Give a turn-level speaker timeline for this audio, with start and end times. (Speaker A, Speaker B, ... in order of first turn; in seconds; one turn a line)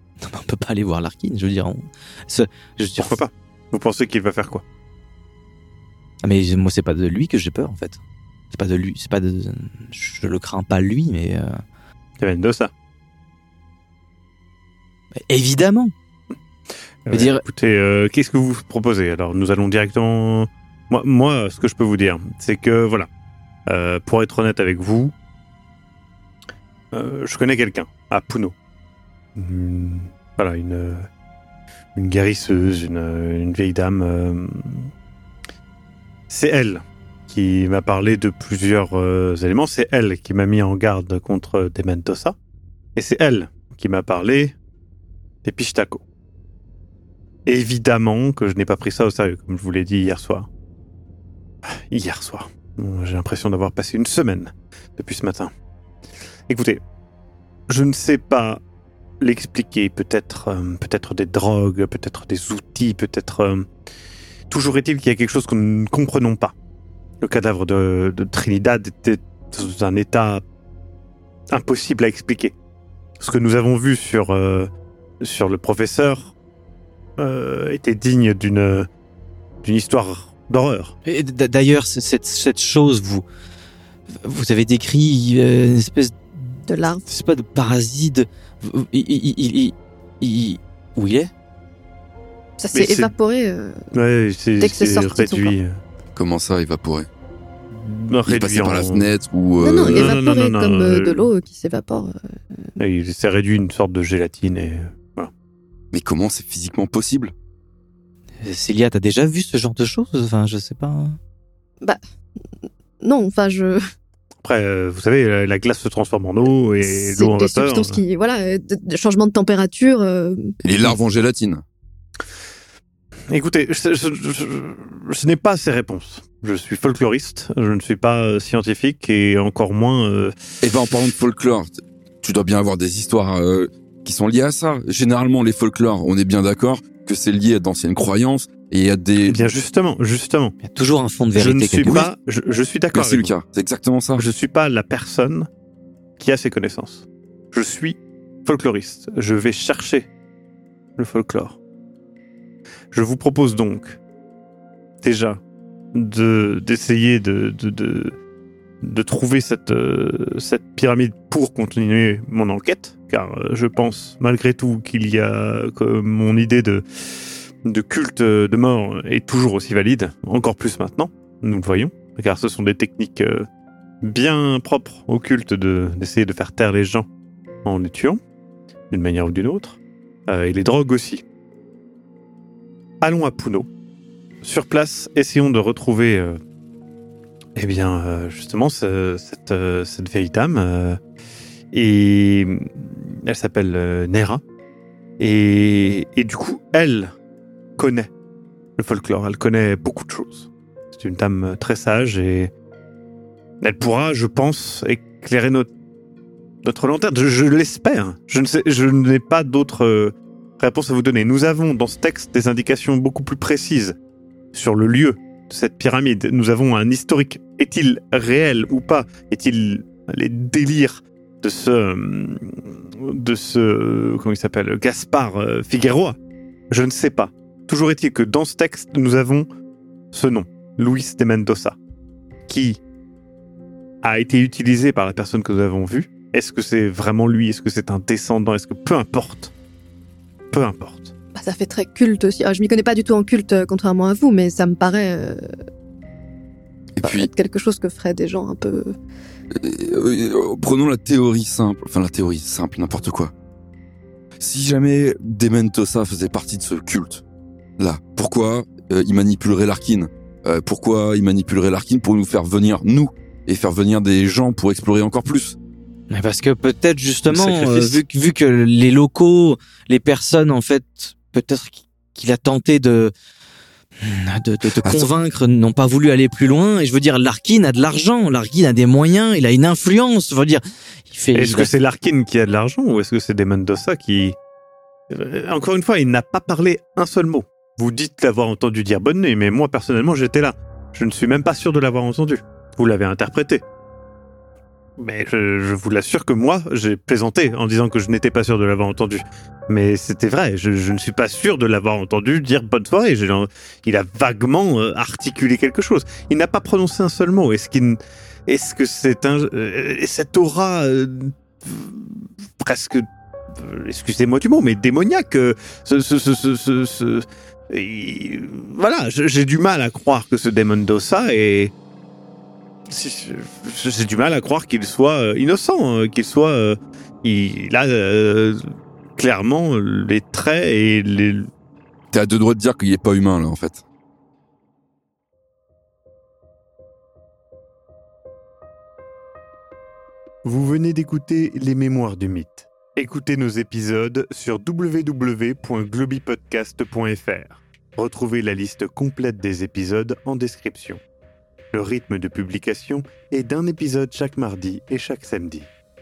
Speaker A: 0.2-3.2
Speaker B: 3.0-4.6
Speaker A: 6.2-8.0
Speaker A: 8.5-11.6
Speaker B: 12.2-12.7
Speaker A: 15.1-15.9
Speaker B: 17.0-23.1
Speaker A: 17.1-17.4
Speaker B: 23.6-25.1
Speaker B: 26.9-28.5
Speaker B: 29.4-31.1
Speaker B: 31.9-34.9
Speaker B: 36.3-42.4
Speaker B: 43.0-44.5
Speaker B: 45.4-46.0
Speaker B: 47.5-50.5
Speaker B: 51.6-55.5
Speaker B: 56.5-56.8
Speaker B: 57.7-58.6
Speaker B: 59.2-63.7
Speaker B: 64.5-66.5
Speaker B: 67.2-70.4
Speaker B: 71.5-72.5
Speaker B: 73.2-74.7
Speaker B: 75.2-76.3
Speaker B: 77.2-78.9
Speaker B: 79.6-80.9
Speaker A: 81.0-83.2
Speaker A: 84.2-91.3
Speaker C: 86.7-87.0
Speaker C: 92.6-93.8
Speaker B: 92.7-93.1
Speaker B: 93.9-95.8
Speaker C: 94.6-95.5
Speaker D: 96.1-97.1
Speaker B: 97.7-99.1
Speaker D: 98.2-100.2
Speaker C: 99.6-102.7
Speaker B: 99.8-101.3
Speaker B: 102.8-105.3
Speaker D: 105.9-107.3
Speaker A: 108.4-111.2
Speaker C: 113.0-113.8
Speaker B: 114.4-118.0
Speaker C: 116.8-120.5
Speaker D: 120.6-121.6
Speaker B: 123.3-130.3
Speaker D: 130.6-139.4
Speaker B: 139.2-140.6
Speaker A: 140.6-142.0
Speaker B: 141.3-143.3
Speaker D: 141.8-142.1
Speaker D: 142.9-144.2
Speaker B: 144.2-145.5
Speaker B: 146.2-150.1
Speaker B: 151.0-151.6
Speaker B: 152.9-154.0
Speaker B: 155.0-155.4
Speaker B: 155.9-158.2
Speaker B: 158.8-173.5
Speaker B: 174.0-177.1
Speaker B: 177.6-178.2
Speaker B: 178.9-181.2
Speaker B: 183.0-183.7
Speaker B: 184.4-186.4
Speaker B: 187.6-191.0
Speaker B: 191.7-194.4
Speaker B: 195.2-197.1
Speaker B: 197.8-198.1
Speaker B: 198.8-202.5
Speaker B: 203.6-205.7
Speaker B: 206.6-213.9
Speaker B: 214.5-226.2
Speaker B: 226.7-229.4
Speaker B: 230.1-231.8
Speaker B: 232.5-232.8
Speaker B: 234.0-239.5
Speaker B: 240.5-241.1
Speaker C: 241.3-245.4
Speaker D: 246.9-247.3
Speaker C: 247.0-248.9
Speaker D: 249.5-253.3
Speaker D: 254.4-257.2
Speaker D: 257.8-265.6
Speaker A: 266.1-273.1
Speaker D: 267.3-268.0
Speaker A: 274.0-281.7
Speaker D: 274.7-275.1
Speaker B: 281.3-284.4
Speaker B: 285.1-293.6
Speaker B: 295.0-321.7
Speaker B: 322.9-328.6
Speaker B: 329.2-331.5
Speaker D: 332.1-333.8
Speaker B: 340.4-351.0
Speaker B: 351.7-355.7